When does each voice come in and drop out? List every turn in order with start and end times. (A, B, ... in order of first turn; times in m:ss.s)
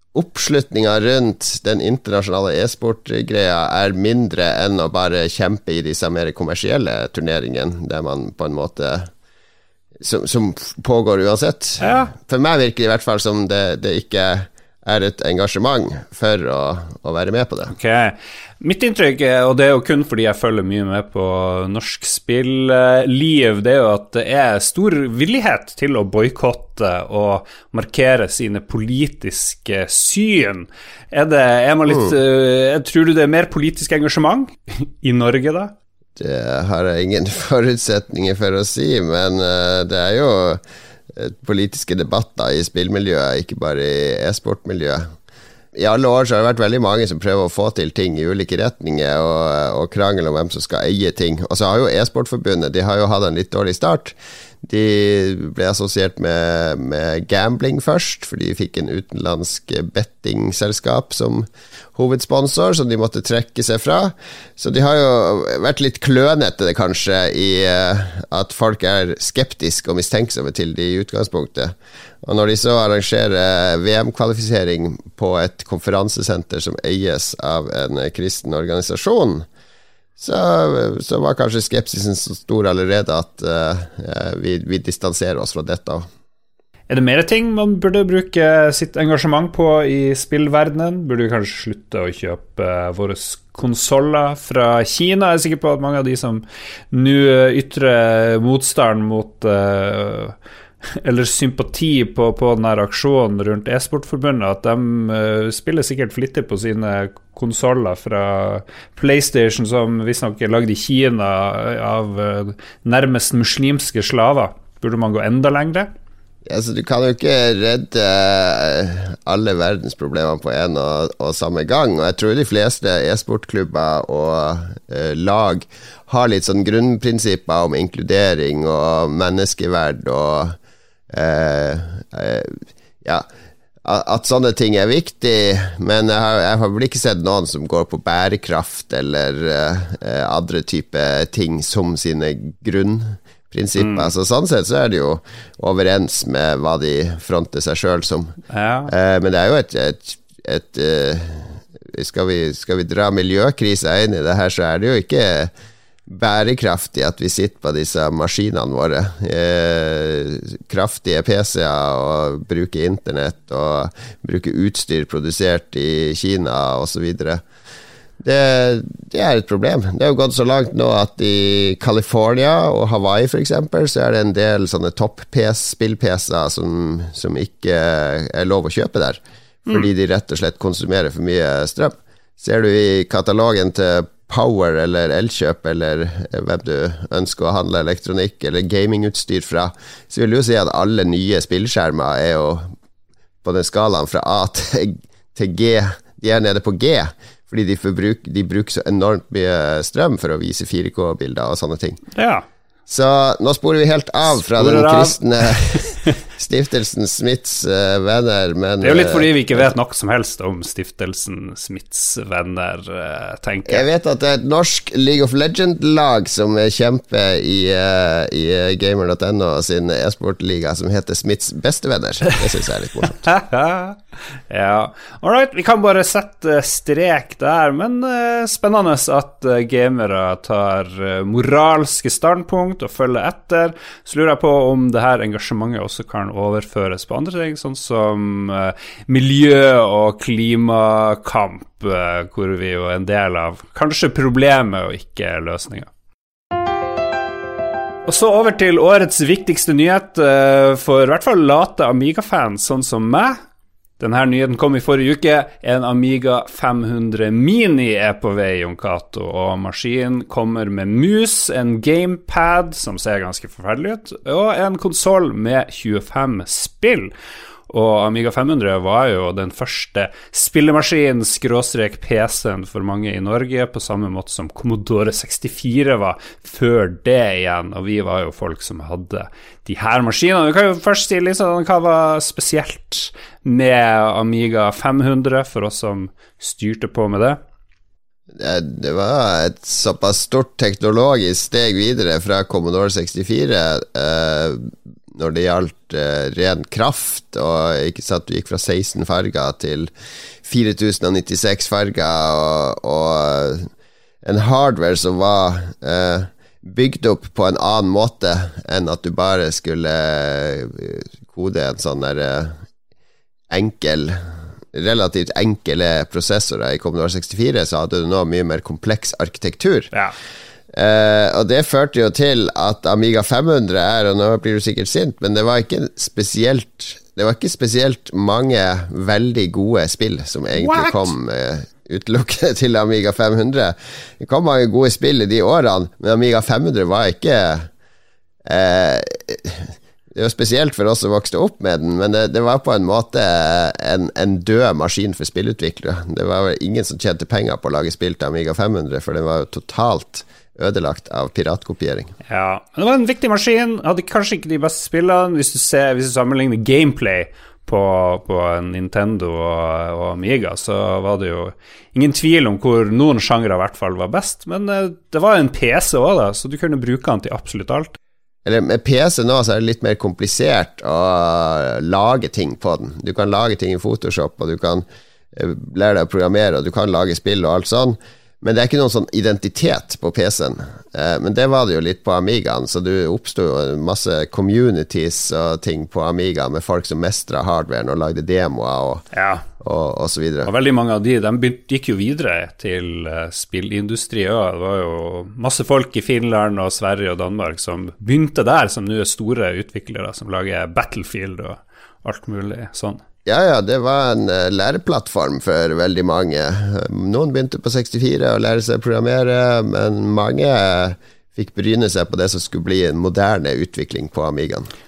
0:00.1-0:09.1 A
0:10.0-0:17.7 A
0:11.8-0:12.1 B
0:17.7-0:35.7 B
0:36.2-0:45.1 A
0:45.8-1:19.4 A
1:20.2-1:26.0 A
1:26.9-1:40.3 B
1:41.0-1:55.9 B
1:56.4-2:10.6 A
2:11.1-2:13.2 A
2:13.8-2:28.3 A
2:23.8-2:24.1 B
2:28.5-2:28.9 B
2:28.9-2:35.5 A
2:36.1-2:47.4 A
2:48.2-3:12.7 A
3:13.4-3:22.0 A
3:22.1-3:22.4 B
3:22.9-3:29.7 A
3:24.3-3:26.2 B
3:28.8-3:33.9 B
3:33.7-3:43.3 A
3:43.2-4:05.9 B
4:08.1-4:13.4 B
4:14.0-4:27.1 B
4:27.7-4:47.4 B
4:48.4-4:59.9 A
5:00.4-5:03.7 A
5:04.2-5:12.6 A
5:13.5-5:14.2 A
5:14.7-5:19.9 A
5:20.7-5:37.7 A
5:30.6-5:31.1 B
5:38.4-5:52.1 A
5:52.3-6:08.0 B
6:08.4-6:29.0 A
6:29.1-6:29.4 B
6:29.6-6:30.5 A
6:30.4-6:43.0 B
6:43.2-6:54.7 A